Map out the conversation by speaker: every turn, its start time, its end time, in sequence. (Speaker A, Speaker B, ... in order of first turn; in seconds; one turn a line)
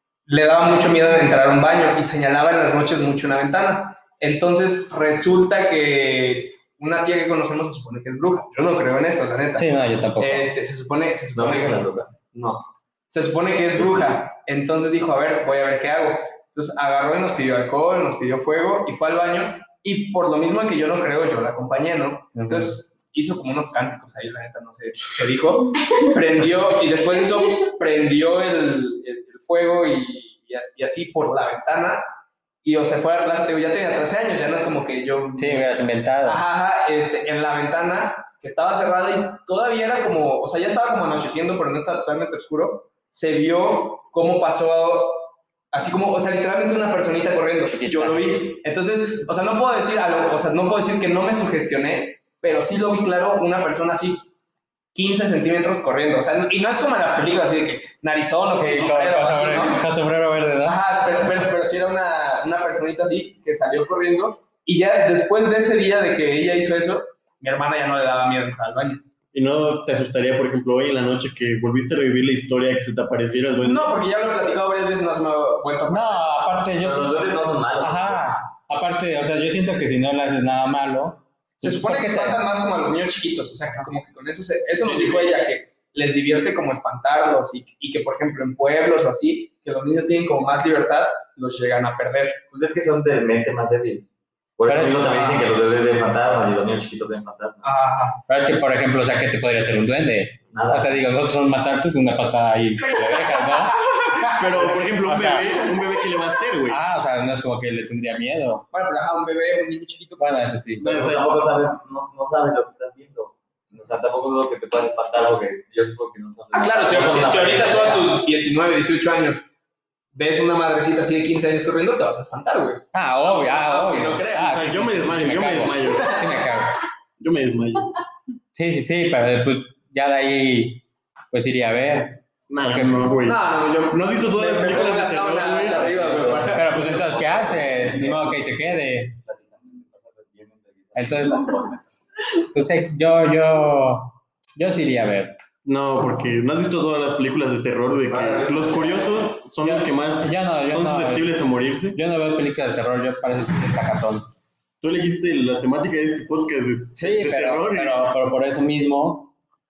Speaker A: 0.3-32.0
Speaker B: 9.6-10.5
Speaker C: 11.3-12.2
Speaker B: 22.3-22.8
Speaker A: 32.6-54.3
Speaker B: 35.4-36.4
Speaker B: 47.7-48.3
Speaker A: 54.9-59.8
Speaker B: 58.5-60.8
Speaker A: 60.6-69.0
Speaker D: 69.3-74.0
Speaker A: 73.6-76.3
Speaker B: 75.9-82.4
Speaker C: 76.8-78.3
Speaker A: 81.6-92.4
Speaker D: 84.8-85.3
Speaker C: 92.5-94.1
Speaker C: 94.6-97.8
Speaker B: 94.7-95.5
Speaker A: 97.6-98.2
Speaker B: 98.3-103.8
Speaker C: 100.5-101.0
Speaker A: 103.8-104.8
Speaker D: 104.2-106.8
Speaker B: 105.0-105.6
Speaker B: 106.7-108.7
Speaker A: 108.7-110.5
Speaker B: 110.2-110.9
Speaker D: 110.8-111.5
Speaker C: 110.8-118.2
Speaker A: 116.5-119.4
Speaker A: 120.1-124.6
Speaker B: 122.9-126.8
Speaker D: 124.4-126.2
Speaker A: 126.0-126.3
Speaker D: 127.2-128.0
Speaker B: 128.5-133.1
Speaker D: 132.5-135.9
Speaker A: 133.2-136.7
Speaker C: 135.6-138.4
Speaker B: 136.5-139.2
Speaker C: 139.2-142.0
Speaker B: 140.9-141.5
Speaker B: 142.5-145.4
Speaker D: 145.7-152.0
Speaker C: 148.1-149.3
Speaker B: 149.6-151.4
Speaker B: 151.9-154.2
Speaker D: 154.8-158.0
Speaker B: 157.0-159.3